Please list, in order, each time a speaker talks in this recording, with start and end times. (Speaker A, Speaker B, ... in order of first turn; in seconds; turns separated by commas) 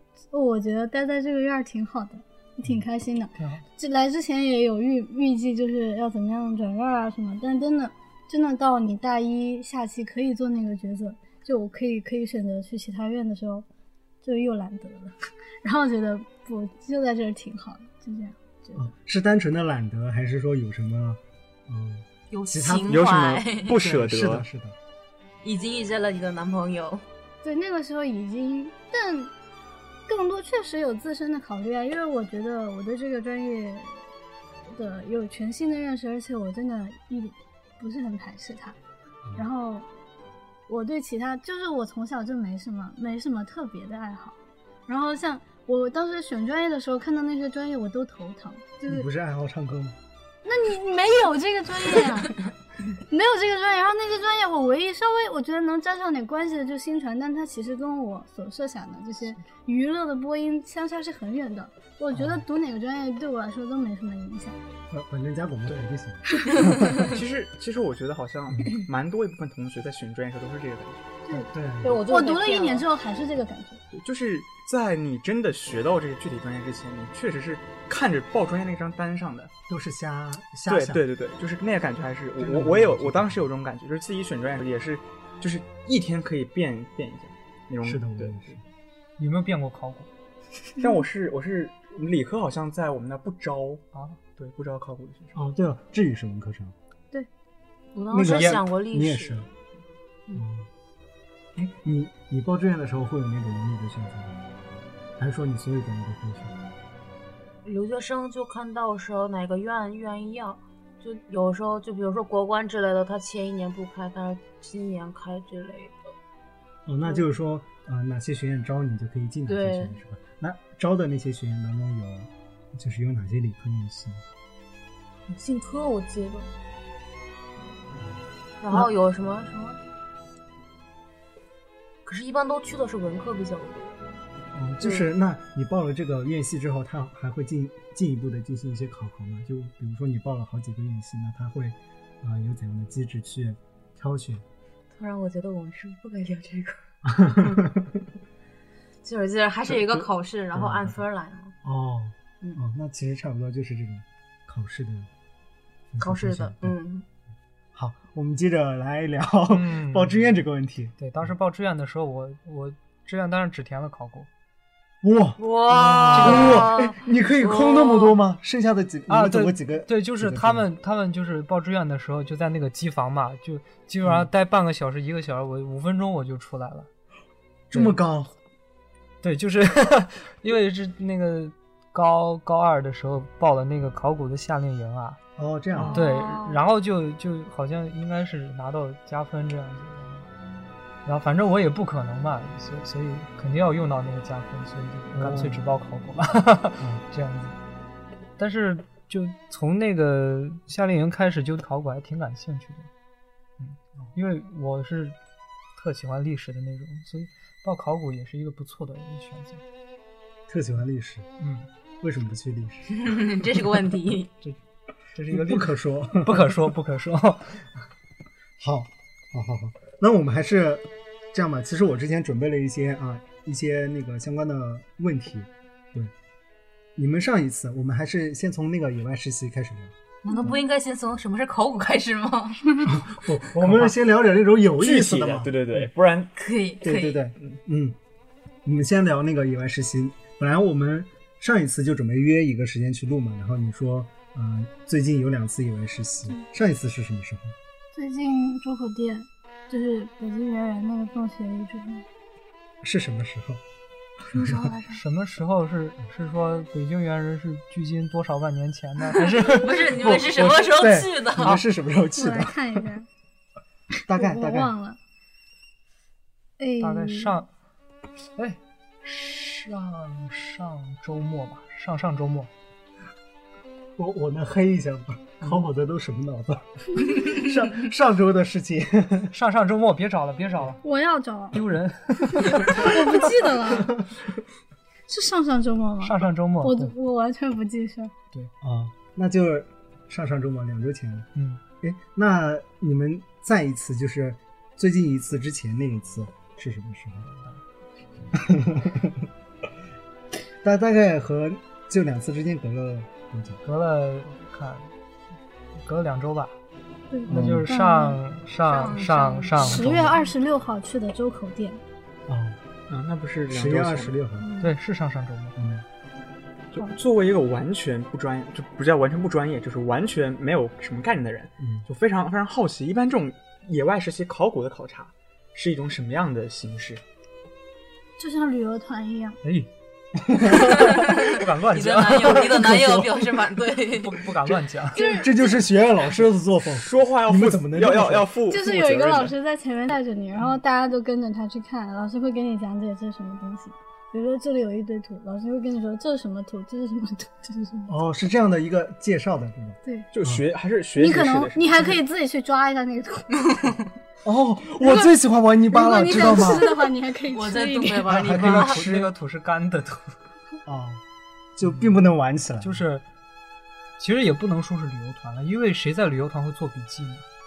Speaker A: 0.3-13.7, Speaker B: 3.4-3.6, Speaker A: 14.2-18.9, Speaker C: 18.7-23.1, Speaker D: 22.3-23.8, Speaker E: 22.9-24.4, Speaker C: 23.7-24.8, Speaker D: 25.4-27.0, Speaker A: 27.4-29.3, Speaker A: 30.1-34.0, Speaker A: 34.7-38.8, Speaker A: 39.4-39.9, Speaker A: 40.7-49.1, Speaker C: 48.9-50.0, Speaker A: 50.4-64.5, Speaker C: 62.1-62.4, Speaker C: 64.9-67.0, Speaker E: 66.9-71.1, Speaker C: 68.5-68.8, Speaker C: 71.3-72.0, Speaker D: 71.8-72.8, Speaker A: 72.0-73.8, Speaker E: 73.9-79.5, Speaker C: 79.7-81.0, Speaker E: 80.7-88.5, Speaker C: 82.4-83.5, Speaker C: 87.8-88.6, Speaker B: 89.2-90.1, Speaker E: 90.8-95.3, Speaker B: 93.9-94.2, Speaker C: 95.3-96.7, Speaker D: 97.9-99.5, Speaker C: 98.1-99.5, Speaker B: 98.2-98.6, Speaker C: 100.3-100.7, Speaker C: 101.5-104.4, Speaker C: 105.2-106.5, Speaker D: 107.6-116.1, Speaker C: 116.8-124.2, Speaker D: 119.5-120.0, Speaker D: 125.3-126.5, Speaker D: 128.6-129.8, Speaker D: 132.1-134.0, Speaker C: 134.5-144.4, Speaker D: 134.8-135.1, Speaker D: 144.9-147.6, Speaker C: 147.0-147.9, Speaker D: 149.0-151.5, Speaker C: 149.7-151.0, Speaker C: 151.6-155.1, Speaker C: 155.9-156.7, Speaker D: 156.0-157.1, Speaker C: 157.7-160.9, Speaker B: 159.5-160.1, Speaker B: 161.0-164.3, Speaker C: 165.0-170.7, Speaker D: 165.4-168.2, Speaker B: 166.1-166.7, Speaker B: 169.1-176.9, Speaker C: 177.7-178.3, Speaker B: 179.2-185.2, Speaker C: 185.3-186.0, Speaker E: 185.7-186.1, Speaker D: 185.9-186.6, Speaker B: 185.9-190.2, Speaker B: 191.0-197.6, Speaker C: 195.1-195.6, Speaker B: 198.4-202.9, Speaker B: 203.6-205.2, Speaker B: 205.8-209.6, Speaker C: 210.5-211.3, Speaker B: 211.4-211.7, Speaker C: 212.0-213.0, Speaker D: 212.9-214.3, Speaker B: 215.1-217.6, Speaker C: 215.3-216.5, Speaker C: 218.6-226.1, Speaker C: 226.9-230.5, Speaker D: 230.2-232.9, Speaker C: 232.9-235.9, Speaker B: 233.6-233.9, Speaker E: 234.8-236.3, Speaker D: 236.3-237.2, Speaker C: 236.8-238.0, Speaker C: 238.6-247.5, Speaker A: 247.9-252.0, Speaker C: 252.8-253.6, Speaker C: 254.2-254.7, Speaker A: 254.4-255.0, Speaker B: 254.9-259.9, Speaker D: 259.4-261.6, Speaker C: 259.9-262.9, Speaker A: 262.1-263.1, Speaker C: 264.1-264.7, Speaker A: 264.1-265.0, Speaker A: 266.6-267.4, Speaker B: 266.8-267.5, Speaker B: 268.4-272.5, Speaker C: 274.0-279.3, Speaker B: 279.3-280.8, Speaker A: 280.8-281.6, Speaker B: 281.5-283.0, Speaker A: 282.6-284.0, Speaker A: 285.1-288.1, Speaker B: 286.0-286.9, Speaker C: 288.6-291.3, Speaker B: 291.3-291.6, Speaker C: 291.8-297.3, Speaker B: 297.3-297.6, Speaker C: 298.3-299.3, Speaker C: 300.6-303.6, Speaker B: 303.6-304.9, Speaker B: 305.8-306.5, Speaker A: 307.1-308.2, Speaker C: 307.3-307.7, Speaker B: 307.3-310.2, Speaker D: 308.6-309.9, Speaker A: 309.6-311.8, Speaker C: 312.3-312.6, Speaker E: 312.9-314.2, Speaker C: 313.5-314.5, Speaker D: 314.4-314.7, Speaker B: 314.6-315.6, Speaker C: 315.6-315.8, Speaker E: 316.7-327.0, Speaker C: 321.6-321.8, Speaker A: 328.2-329.4, Speaker B: 329.4-329.7, Speaker C: 330.2-331.1, Speaker D: 330.6-334.3, Speaker B: 330.7-332.7, Speaker C: 332.3-333.2, Speaker B: 333.9-335.0, Speaker A: 334.9-335.3, Speaker C: 334.9-338.3, Speaker E: 336.7-339.3, Speaker A: 338.5-347.9, Speaker C: 347.9-350.4, Speaker E: 350.1-352.0, Speaker A: 350.9-353.6, Speaker C: 354.2-356.7, Speaker A: 354.8-355.1, Speaker A: 355.7-358.1, Speaker D: 357.3-358.8, Speaker C: 358.0-359.1, Speaker B: 358.2-360.1, Speaker C: 360.6-361.0, Speaker C: 361.6-362.8, Speaker B: 362.6-363.0, Speaker B: 364.0-367.2